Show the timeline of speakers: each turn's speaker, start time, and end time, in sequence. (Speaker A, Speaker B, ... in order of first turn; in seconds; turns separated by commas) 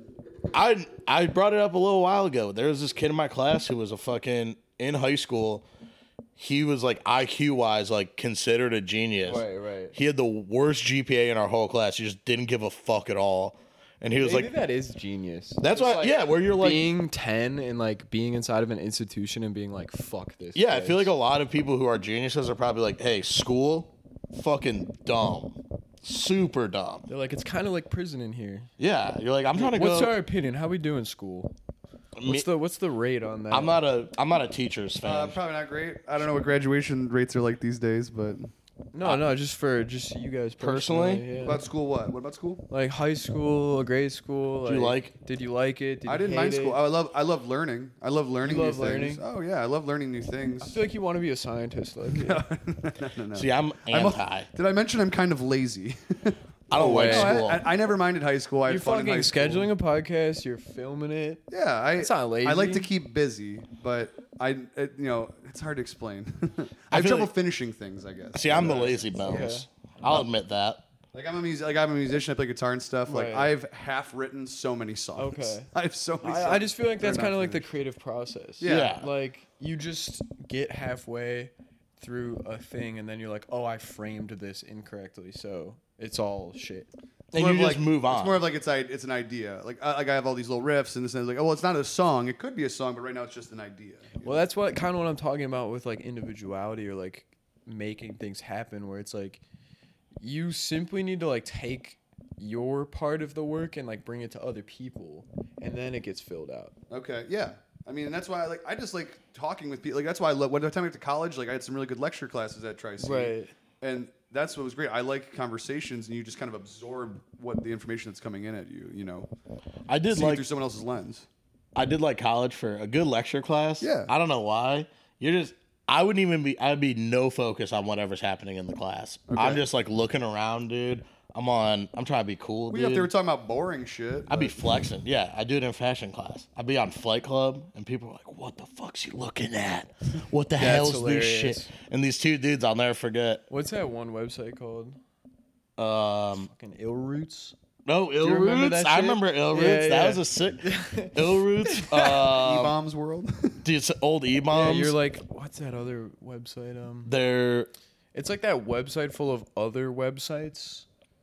Speaker A: 0.5-5.7, Speaker A: 6.3-14.5, Speaker B: 9.2-9.9, Speaker B: 14.2-21.1, Speaker A: 15.6-16.9, Speaker A: 20.5-27.1, Speaker B: 27.1-28.7, Speaker A: 28.8-30.2, Speaker B: 29.5-31.5, Speaker A: 32.2-32.5, Speaker B: 32.2-33.8, Speaker A: 33.5-35.4, Speaker C: 35.0-38.5, Speaker B: 38.9-41.6, Speaker A: 40.6-41.2, Speaker C: 41.4-42.6, Speaker B: 42.7-46.8, Speaker A: 44.6-45.1, Speaker C: 46.0-50.8, Speaker B: 48.4-49.2, Speaker B: 50.6-52.4, Speaker C: 52.1-59.7, Speaker A: 53.3-54.5, Speaker A: 56.7-57.6, Speaker B: 56.7-57.5, Speaker B: 58.7-61.4, Speaker C: 61.5-69.5, Speaker B: 62.0-62.9, Speaker A: 66.9-67.3, Speaker A: 68.3-70.8, Speaker B: 69.2-69.7, Speaker C: 71.1-77.7, Speaker B: 73.1-73.5, Speaker B: 75.2-75.7, Speaker B: 76.2-86.9, Speaker C: 78.6-79.0, Speaker A: 78.6-79.1, Speaker A: 87.3-88.4, Speaker C: 87.3-94.4, Speaker B: 94.2-99.4, Speaker B: 100.2-106.7, Speaker C: 106.9-119.3, Speaker B: 113.0-113.5, Speaker A: 119.9-120.4, Speaker C: 120.1-121.3, Speaker A: 121.7-133.1, Speaker C: 123.8-124.1, Speaker C: 129.3-129.6, Speaker C: 132.7-134.8, Speaker A: 134.3-143.4, Speaker B: 140.6-141.7, Speaker B: 143.5-145.0, Speaker A: 145.8-146.5, Speaker B: 146.4-147.6, Speaker A: 147.8-152.7, Speaker B: 148.2-152.2, Speaker C: 152.0-153.6, Speaker A: 153.6-154.9, Speaker B: 154.5-157.1, Speaker A: 157.0-157.7, Speaker B: 158.1-160.8